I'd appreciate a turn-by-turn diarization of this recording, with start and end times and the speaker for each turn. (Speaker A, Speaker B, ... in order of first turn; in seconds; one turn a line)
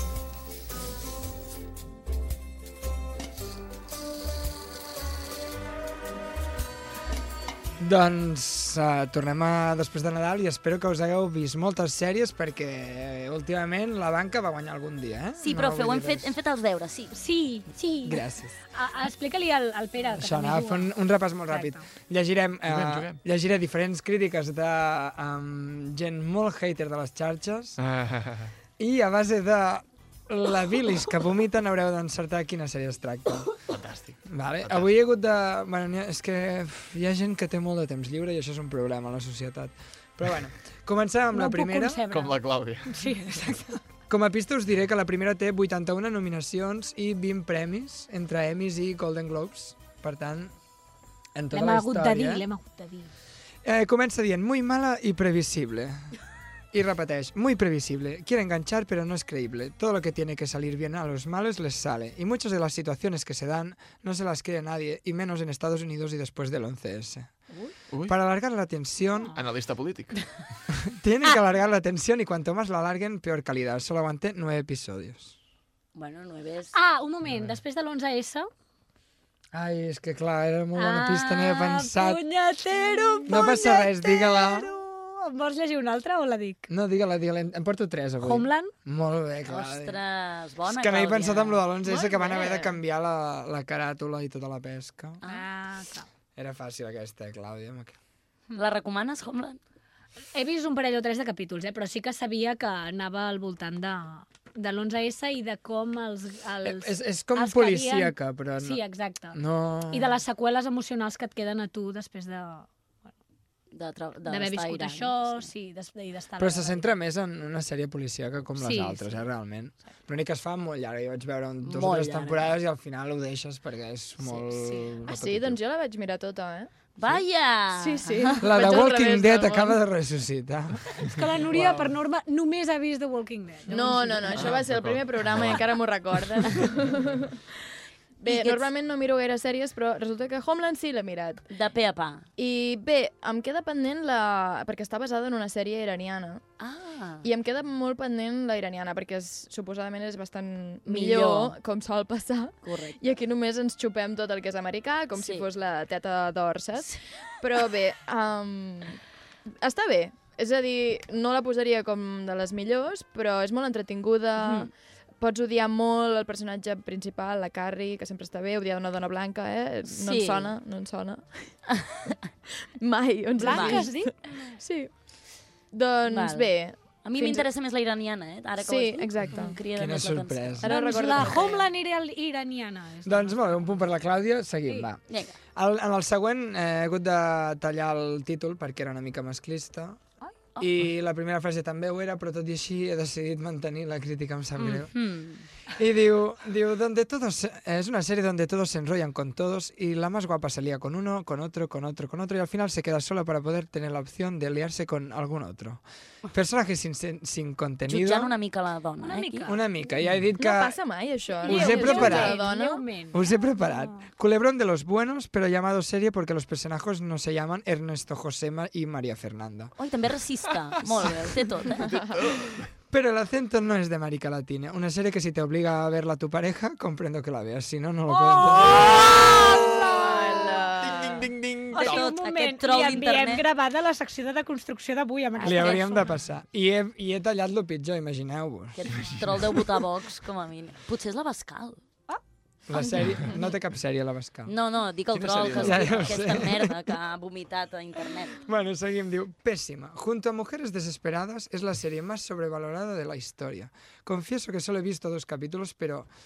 Speaker A: 7.8-16.3
Speaker B: 15.4-17.1
Speaker C: 17.1-18.2
Speaker A: 18.0-18.6
Speaker C: 18.7-20.9
Speaker A: 20.1-27.8
Speaker C: 21.5-21.8
Speaker D: 22.7-23.2
Speaker D: 27.8-28.5
Speaker A: 28.8-33.5
Speaker D: 33.7-34.9
Speaker A: 34.2-42.0
Speaker C: 41.3-43.4
Speaker D: 42.1-43.1
Speaker A: 43.4-50.5
Speaker A: 51.3-52.4
Speaker C: 51.5-53.1
Speaker A: 53.6-56.1
Speaker A: 56.7-67.3
Speaker A: 68.1-69.3
Speaker D: 69.3-70.1
Speaker A: 70.8-75.3
Speaker B: 75.9-76.7
Speaker C: 76.7-78.5
Speaker A: 79.5-82.2
Speaker C: 80.8-86.7
Speaker A: 83.3-84.7
Speaker A: 86.7-90.0
Speaker C: 88.2-88.7
Speaker B: 89.5-92.7
Speaker A: 90.7-95.2
Speaker B: 95.2-95.5
Speaker C: 95.2-96.1
Speaker A: 96.3-98.0
Speaker B: 98.5-99.6
Speaker C: 100.3-109.4
Speaker A: 106.6-108.8
Speaker A: 109.3-110.2
Speaker C: 109.9-112.7
Speaker B: 113.7-115.4
Speaker C: 114.2-116.9
Speaker A: 116.4-125.6
Speaker C: 118.6-119.2
Speaker B: 121.6-122.5
Speaker E: 125.0-126.7
Speaker B: 127.0-128.4
Speaker E: 127.8-129.8
Speaker A: 128.4-131.8
Speaker C: 131.0-134.4
Speaker E: 133.7-137.5
Speaker D: 134.3-135.7
Speaker E: 138.2-141.4
Speaker B: 138.2-138.7
Speaker B: 141.5-142.3
Speaker E: 142.4-146.4
Speaker B: 146.6-147.2
Speaker E: 147.2-159.0
Speaker B: 150.8-151.5
Speaker B: 152.6-153.1
Speaker B: 155.2-155.4
Speaker E: 159.6-164.7
Speaker B: 164.4-164.7
Speaker E: 165.2-171.6
Speaker B: 169.8-170.5
Speaker E: 172.8-174.9
Speaker C: 173.4-174.3
Speaker B: 173.4-173.9
Speaker E: 175.7-177.4
Speaker B: 176.1-176.5
Speaker B: 177.0-180.7
Speaker E: 178.6-179.6
Speaker A: 179.7-181.3
Speaker E: 180.6-181.7
Speaker C: 180.7-183.5
Speaker A: 183.0-190.0
Speaker B: 185.1-185.3
Speaker A: 190.6-195.1
Speaker C: 194.6-195.4
Speaker A: 195.7-208.3
Speaker B: 207.9-209.5
Speaker C: 209.0-209.6
Speaker A: 209.4-210.8
Speaker E: 210.4-212.8
Speaker A: 211.4-212.5
Speaker C: 211.4-214.1
Speaker A: 213.1-219.8
Speaker B: 219.8-221.9
Speaker D: 221.8-222.7
Speaker A: 222.9-228.9
Speaker C: 228.1-228.8
Speaker D: 228.6-230.0
Speaker E: 228.9-231.3
Speaker D: 230.8-232.1
Speaker C: 231.7-236.1
Speaker B: 231.7-233.4
Speaker B: 235.4-235.8
Speaker A: 235.4-238.8
Speaker B: 238.8-241.8
Speaker A: 242.7-244.5
Speaker B: 244.5-248.4
Speaker D: 245.1-246.3
Speaker A: 245.2-246.8
Speaker A: 248.4-256.1